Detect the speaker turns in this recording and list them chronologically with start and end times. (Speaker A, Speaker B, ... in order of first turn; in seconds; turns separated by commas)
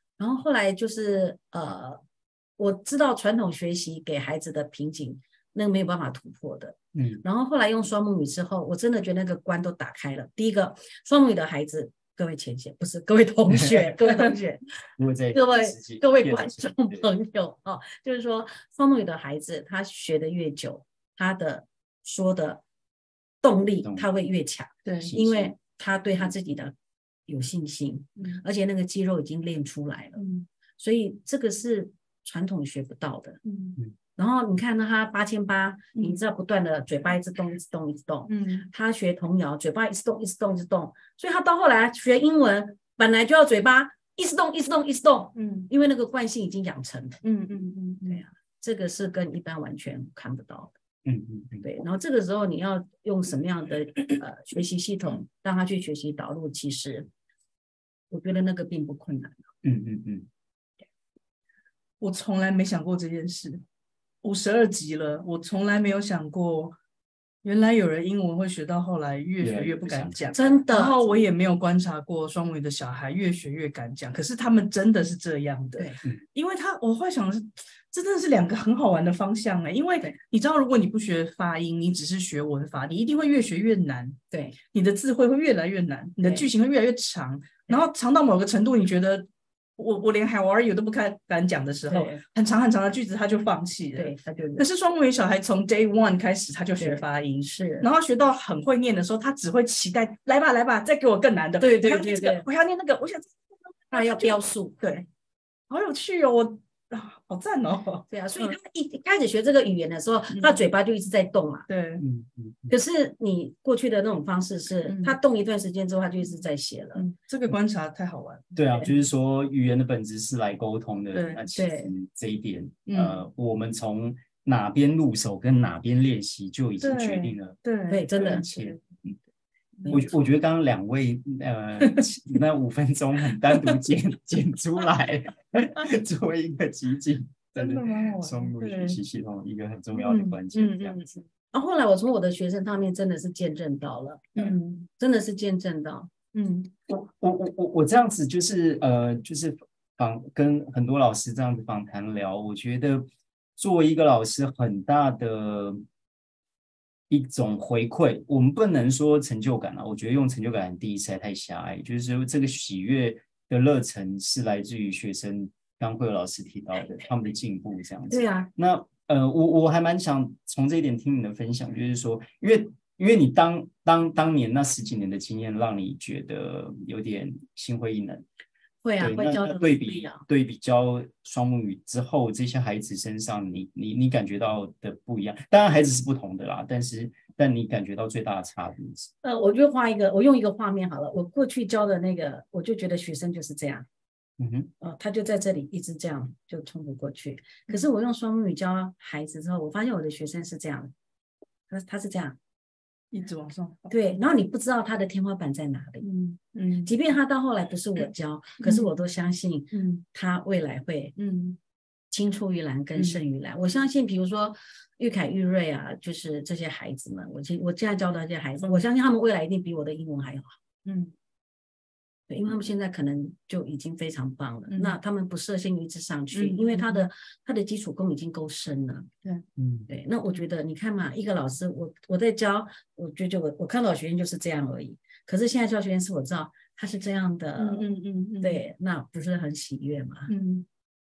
Speaker A: 0.2-2.0, Speaker A: 2.6-14.6, Speaker B: 7.0-7.2, Speaker B: 13.5-13.9, Speaker B: 15.0-17.1, Speaker A: 15.3-22.6, Speaker A: 23.4-26.7, Speaker C: 24.9-25.1, Speaker B: 25.0-25.5, Speaker A: 27.3-30.2, Speaker C: 30.2-30.5, Speaker A: 30.8-33.4, Speaker C: 33.5-33.8, Speaker A: 34.2-47.2, Speaker C: 38.3-38.7, Speaker C: 45.4-45.7, Speaker C: 47.2-48.2, Speaker A: 48.0-50.7, Speaker B: 51.0-51.7, Speaker A: 51.6-57.1, Speaker A: 58.1-59.4, Speaker B: 59.6-60.3, Speaker C: 62.0-63.6, Speaker C: 64.2-66.8, Speaker C: 67.4-89.3, Speaker B: 69.4-70.5, Speaker A: 70.3-71.1, Speaker A: 84.3-84.6, Speaker C: 89.8-105.1, Speaker A: 91.9-92.2, Speaker A: 94.0-94.7, Speaker A: 96.8-97.9, Speaker A: 101.6-102.5, Speaker A: 103.9-104.8, Speaker C: 105.7-108.6, Speaker A: 108.1-111.7, Speaker C: 110.3-110.6, Speaker C: 111.7-112.0, Speaker B: 112.0-112.7, Speaker A: 112.7-117.0, Speaker C: 114.9-115.2, Speaker C: 117.0-118.5, Speaker B: 118.5-127.6, Speaker C: 121.1-121.4, Speaker A: 121.5-121.9, Speaker C: 122.9-123.2, Speaker C: 126.8-128.8, Speaker A: 127.9-128.5, Speaker B: 128.2-129.2, Speaker B: 129.9-141.1, Speaker C: 131.8-132.1, Speaker C: 137.6-139.0, Speaker C: 140.0-141.2, Speaker A: 141.5-146.1, Speaker C: 144.4-144.9, Speaker C: 146.3-146.7, Speaker B: 146.9-155.8, Speaker B: 157.1-178.2, Speaker A: 168.1-168.5, Speaker A: 178.8-180.2, Speaker B: 179.0-189.1, Speaker A: 189.2-193.9, Speaker B: 194.4-194.7, Speaker A: 194.8-200.9, Speaker A: 201.7-202.4, Speaker C: 203.1-203.9, Speaker A: 203.9-206.1, Speaker C: 206.0-206.9, Speaker A: 206.8-211.2, Speaker C: 208.6-208.9, Speaker C: 209.7-210.0, Speaker C: 211.2-211.6, Speaker A: 212.1-220.5, Speaker C: 212.9-213.2, Speaker C: 220.8-221.1, Speaker A: 222.3-229.1, Speaker C: 224.7-225.0, Speaker C: 226.3-227.1, Speaker B: 229.6-229.9, Speaker A: 229.9-237.9, Speaker C: 237.6-238.6, Speaker A: 238.4-240.3, Speaker C: 240.3-240.7